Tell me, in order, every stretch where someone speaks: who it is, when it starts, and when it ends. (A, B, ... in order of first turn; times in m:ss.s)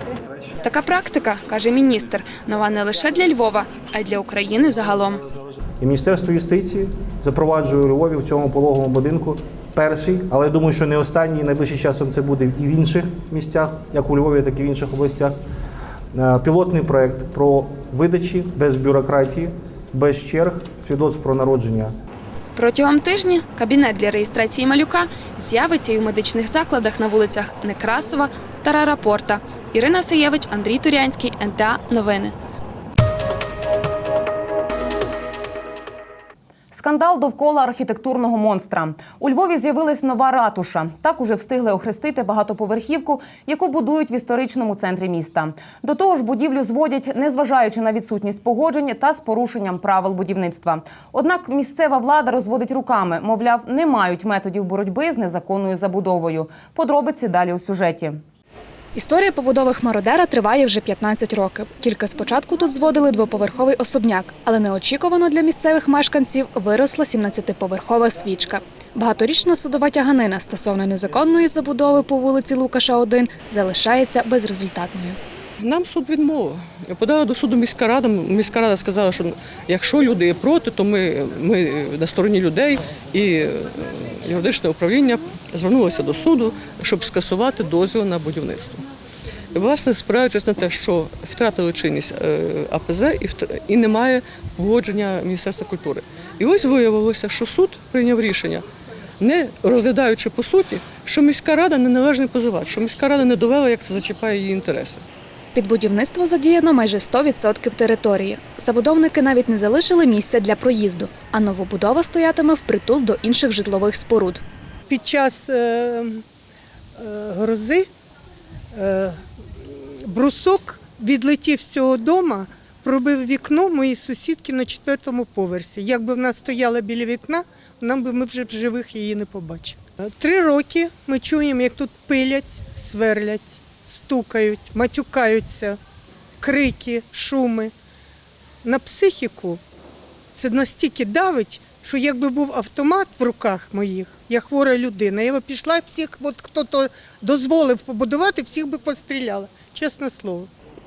0:00.6-0:05.2 A
0:05.8-0:15.4 B
0:16.1-0:21.9 B
0:22.6-0:32.3 A
0:36.7-0:58.2 C
0:58.9-1:15.2 D
1:15.6-1:28.8 E
1:29.5-1:38.6 E
1:39.2-1:45.0 E
1:45.5-1:54.4 D
1:54.9-1:56.2 F
1:57.0-1:57.9 F
1:58.7-2:15.8 F
2:16.4-2:17.7 F
2:18.6-2:19.6 F
2:20.3-2:30.5 F